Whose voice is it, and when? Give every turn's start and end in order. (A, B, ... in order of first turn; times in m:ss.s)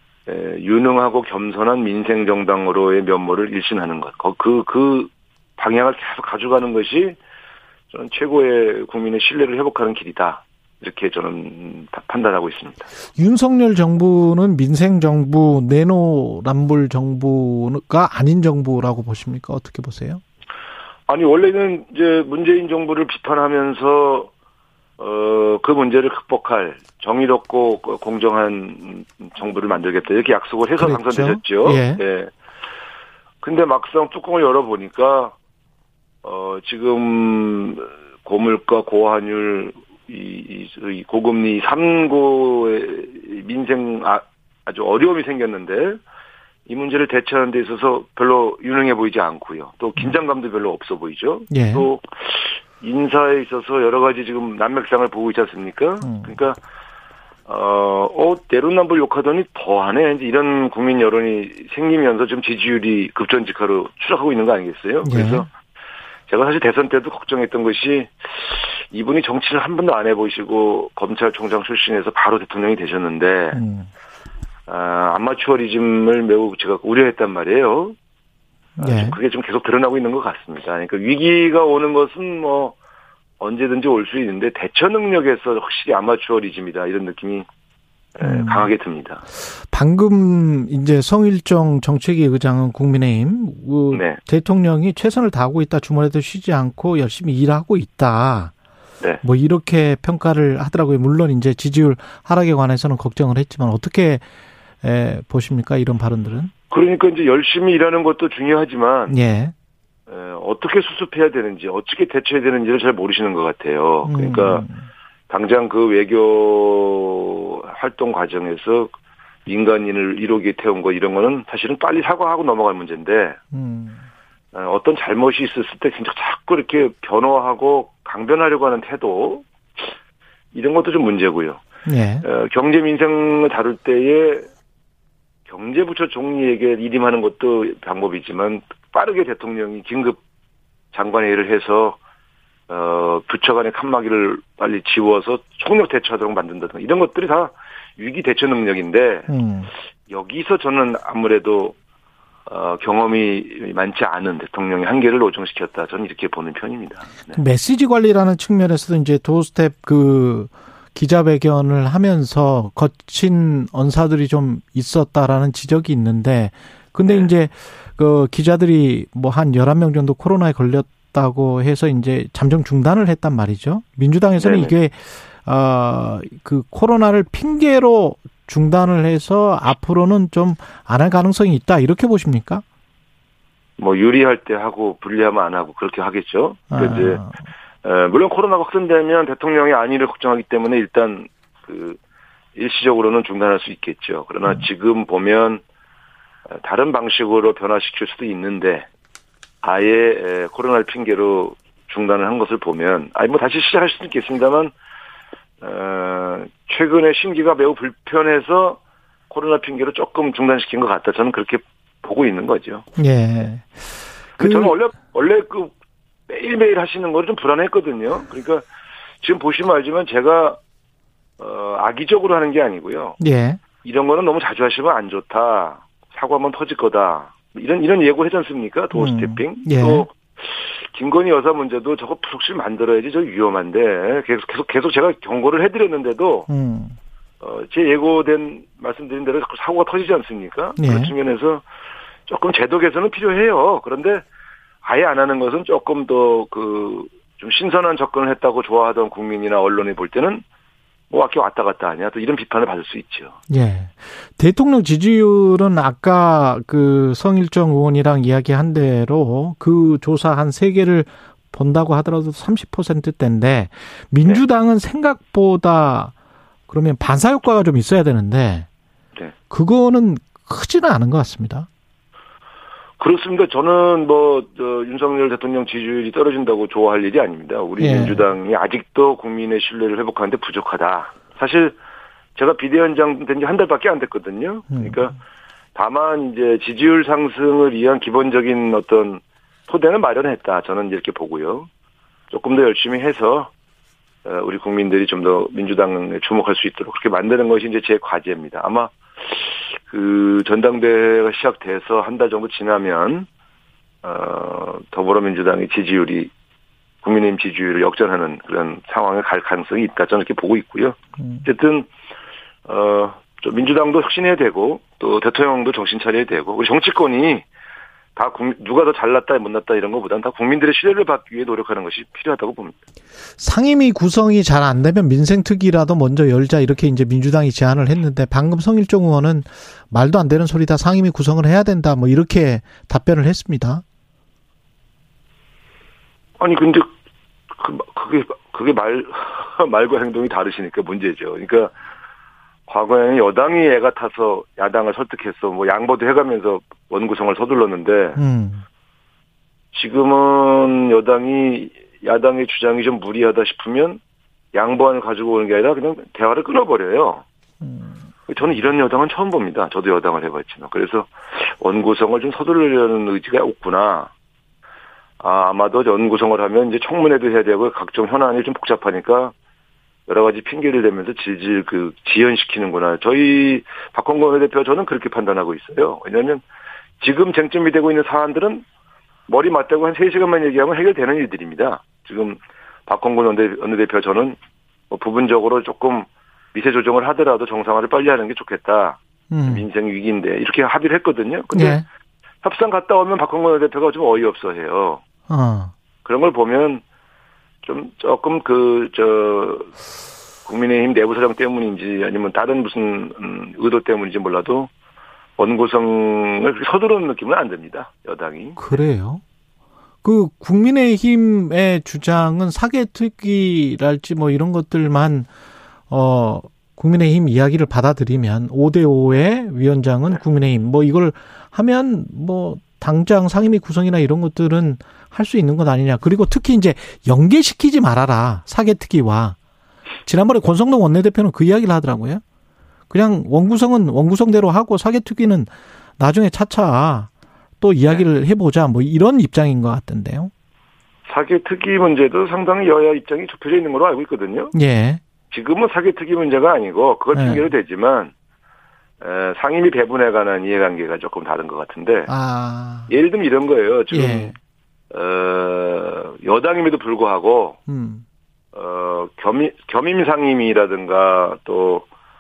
0:00.3-0:07.2 A
0:07.9-0:12.9 A
0:13.2-0:20.2 B
0:21.1-0:24.3 A
0:25.0-0:32.3 A
0:30.8-0:32.0 B
0:33.4-0:35.4 A
0:36.2-0:46.0 A
0:46.7-0:56.6 A
0:51.5-0:51.9 B
0:56.0-0:56.4 B
0:57.5-1:05.5 A
1:05.0-1:05.5 B
1:06.3-1:13.6 A
1:13.5-1:13.9 B
1:14.7-1:18.0 A
1:18.8-1:19.2 B
1:18.8-1:22.8 A
1:23.4-1:27.5 A
1:28.2-1:29.2 A
1:28.2-1:28.7 B
1:29.7-1:38.5 B
1:33.9-1:34.2 A
1:39.2-1:44.2 B
1:44.8-1:46.5 B
1:46.7-1:49.2 A
1:49.1-1:49.5 B
1:50.1-1:54.7 A
1:54.0-1:54.8 B
1:55.3-1:58.9 A
1:59.5-2:03.4 A
2:03.5-2:04.0 B
2:04.5-2:09.9 A
2:10.5-2:11.6 A
2:11.9-2:12.2 B
2:12.2-2:14.5 A
2:15.5-2:20.2 A
2:20.9-2:22.0 A
2:22.7-2:29.3 A
2:29.3-2:29.7 B
2:30.1-2:31.8 A
2:32.5-2:37.4 A
2:37.3-3:02.6 B
2:47.0-2:47.3 A
2:54.4-2:54.8 A
3:03.8-3:07.2 A
3:06.7-3:07.4 B
3:07.8-3:12.0 A
3:12.6-3:15.6 A
3:16.5-3:18.9 A
3:19.6-3:24.7 A
3:25.6-3:32.8 A
3:33.0-3:34.8 B
3:34.4-3:35.7 A
3:36.3-3:38.7 A
3:39.2-3:40.6 A
3:41.4-3:43.2 A
3:43.2-3:43.6 B
3:43.8-3:56.5 A
3:48.9-3:50.1 B
3:56.5-3:57.0 B
3:57.4-4:01.6 A
4:00.8-4:01.1 B
4:02.3-4:04.2 A
4:04.8-4:10.4 A
4:11.1-4:13.4 A
4:13.5-4:26.1 B
4:26.7-4:28.7 B
4:29.5-4:31.7 B
4:33.0-4:41.8 A
4:37.8-4:38.2 B
4:42.4-4:45.2 A
4:44.7-4:45.1 B
4:45.8-4:51.7 A
4:52.3-4:53.5 A
4:54.2-5:03.3 A
5:04.0-5:06.3 A
5:07.0-5:11.9 A
5:12.6-5:17.4 A
5:18.2-5:22.8 A
5:23.4-5:33.8 B
5:36.4-5:36.9 A
5:37.6-5:41.7 A
5:42.7-5:48.2 A
5:48.2-5:48.6 B
5:49.7-5:54.0 A
5:54.5-5:57.3 A
5:57.6-5:57.9 B
5:58.3-6:04.1 A
6:05.2-6:09.3 A
6:10.1-6:16.4 A
6:17.0-6:18.6 A
6:19.3-6:24.4 A
6:24.9-6:31.8 A
6:29.3-6:29.6 B
6:31.5-6:31.8 B
6:32.4-6:35.0 A
6:35.3-6:35.7 B
6:36.0-6:36.8 A
6:37.6-6:39.7 A
6:40.4-6:44.7 A
6:45.4-6:48.6 A
6:48.6-6:49.2 B
6:50.0-6:55.3 B
6:55.9-7:09.4 B
7:10.1-7:12.2 B
7:12.9-7:20.3 B
7:21.1-7:24.6 A
7:24.5-7:25.0 B
7:25.3-7:28.1 A
7:27.1-7:27.5 B
7:29.0-7:32.1 A
7:32.1-7:32.9 B
7:32.9-7:34.3 A
7:33.9-7:34.4 B
7:34.9-7:37.6 A
7:37.7-7:38.0 B
7:38.5-7:41.9 A